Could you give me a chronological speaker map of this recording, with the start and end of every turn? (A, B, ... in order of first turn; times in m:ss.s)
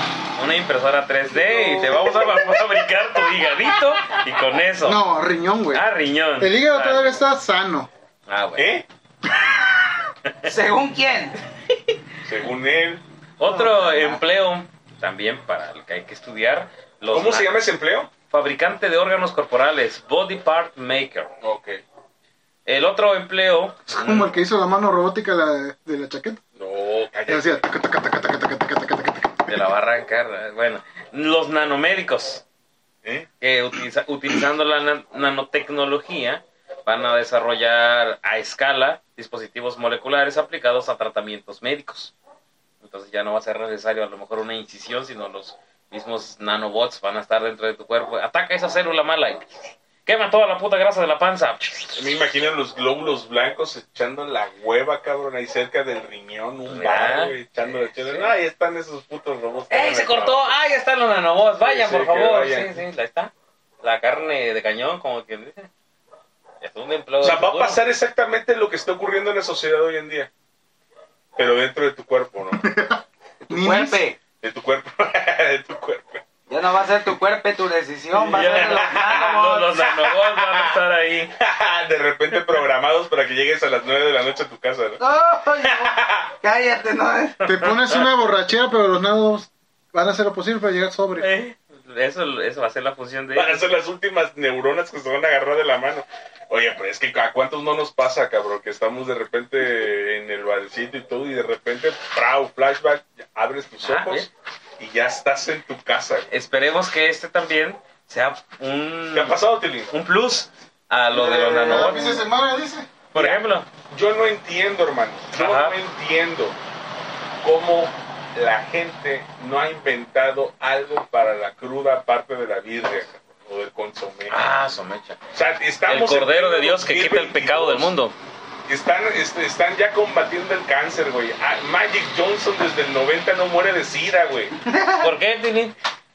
0:00.3-0:05.0 A
0:01.4-0:02.2 B
0:04.8-0:05.8 B
0:05.7-0:07.2 A
0:06.4-0:07.9 B
0:08.3-0:08.7 A
0:08.6-0:08.8 C
0:10.4-0:11.4 D
0:12.2-0:13.0 C
0:13.4-0:17.5 A
0:13.6-0:14.2 D
0:17.1-0:18.1 C
0:18.3-0:21.3 A
0:21.4-0:21.8 C
0:22.7-0:24.2 A
0:23.9-0:26.4 B
0:26.6-0:27.6 C
0:27.3-0:29.6 B
0:29.5-0:32.4 A
0:33.4-0:42.2 A
0:42.8-0:52.0 A
0:52.0-1:00.5 C
0:56.7-0:58.3 A
0:59.7-1:05.7 A
1:01.6-1:02.8 C
1:06.6-1:07.8 A
1:07.2-1:10.3 C
1:11.4-1:12.6 C
1:12.6-1:14.0 B
1:13.4-1:14.2 D
1:14.4-1:16.2 C
1:16.5-1:19.7 D
1:18.2-1:20.8 C
1:18.3-1:21.3 A
1:21.4-1:25.0 C
1:25.0-1:27.4 D
1:25.7-1:26.3 C
1:27.4-1:31.3 B
1:27.4-1:28.1 A
1:31.2-1:33.6 A
1:33.4-1:46.3 C
1:43.8-1:44.3 A
1:46.3-1:49.4 A
1:49.1-1:49.9 C
1:49.9-1:52.2 A
1:51.1-1:52.9 B
1:51.7-1:52.0 C
1:53.1-1:53.7 A
1:53.2-1:56.6 C
1:55.3-1:55.8 A
1:57.4-2:04.5 C
2:04.3-2:05.2 A
2:05.3-2:07.9 C
2:05.9-2:08.1 A
2:08.7-2:14.6 C
2:14.7-2:15.1 D
2:15.0-2:15.8 A